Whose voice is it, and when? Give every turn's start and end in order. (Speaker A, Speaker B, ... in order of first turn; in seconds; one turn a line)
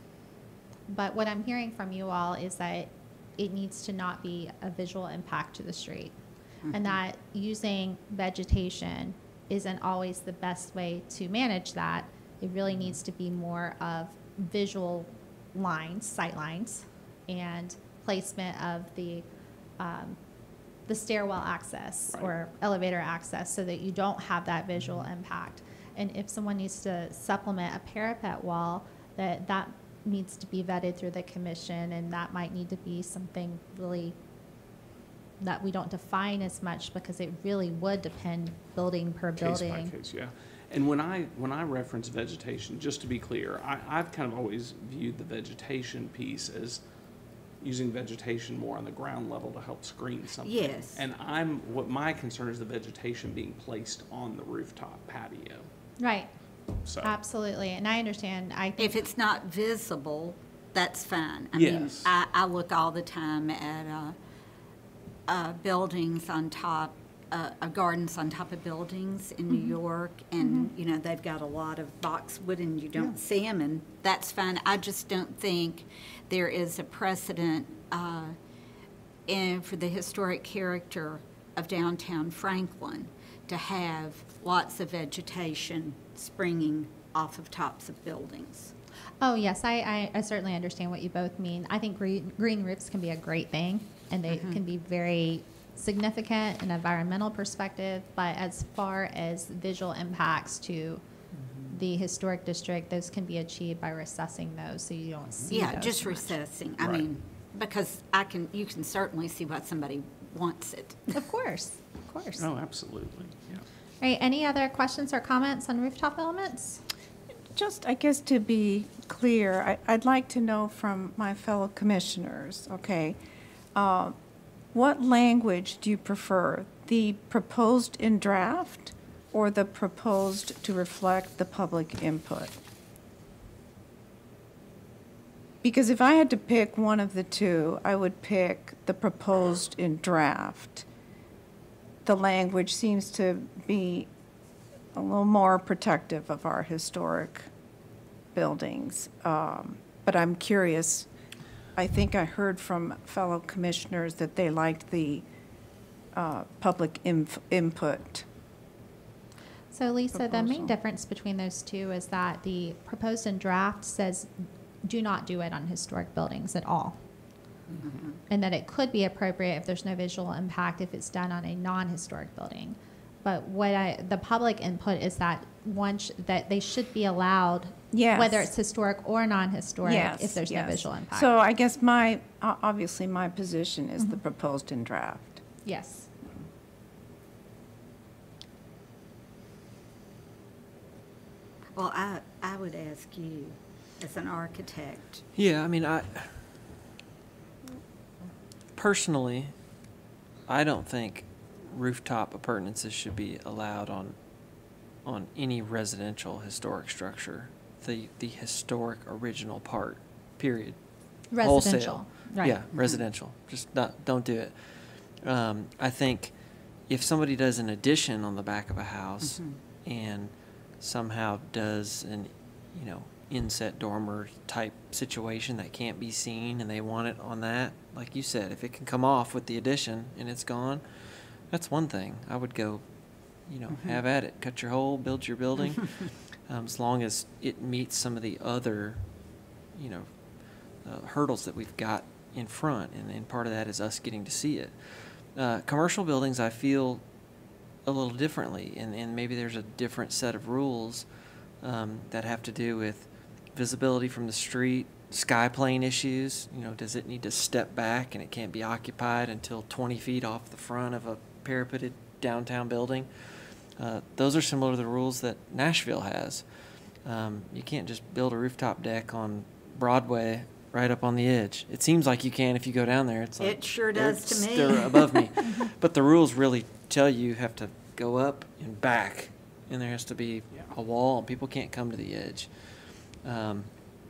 Speaker A: 0.9-6.1
Speaker B: 6.6-7.0
Speaker A: 6.7-19.2
Speaker A: 19.8-20.2
Speaker A: 20.9-34.1
Speaker A: 35.4-39.9
Speaker C: 39.4-46.8
Speaker C: 47.6-55.7
Speaker B: 50.4-51.0
Speaker A: 56.0-56.3
Speaker C: 56.8-57.1
Speaker A: 57.0-59.0
Speaker B: 58.8-64.2
Speaker C: 61.5-62.1
Speaker B: 65.3-78.3
Speaker A: 69.5-69.8
Speaker A: 70.4-70.7
Speaker B: 79.3-88.7
Speaker A: 89.2-101.0
Speaker B: 94.3-94.6
Speaker A: 101.7-106.3
Speaker B: 105.5-111.2
Speaker C: 106.8-107.0
Speaker A: 111.1-112.5
Speaker C: 112.4-113.6
Speaker A: 114.0-116.8
Speaker D: 117.5-123.2
Speaker D: 123.7-124.1
Speaker D: 124.7-132.6
Speaker D: 135.6-140.8
Speaker D: 142.0-144.1
Speaker D: 144.9-147.5
Speaker D: 148.3-151.1
Speaker D: 151.8-155.2
Speaker D: 156.1-158.2
Speaker A: 159.7-164.3
Speaker D: 160.1-160.7
Speaker A: 164.8-167.0
Speaker B: 167.8-168.1
Speaker A: 168.3-181.3
Speaker D: 177.9-178.5
Speaker D: 179.8-185.4
Speaker A: 185.6-186.1
Speaker B: 191.8-195.2
Speaker E: 195.3-196.4
Speaker E: 198.7-199.5
Speaker E: 200.5-204.1
Speaker E: 205.0-210.8
Speaker A: 211.3-212.6
Speaker E: 211.4-216.3
Speaker B: 212.7-213.0
Speaker E: 216.9-232.8
Speaker B: 219.2-219.6
Speaker E: 233.4-239.0
Speaker E: 239.7-240.1
Speaker E: 240.8-247.0
Speaker E: 247.8-251.1
Speaker E: 251.6-266.4
Speaker E: 267.0-282.6
Speaker B: 273.4-275.3
Speaker E: 283.2-283.7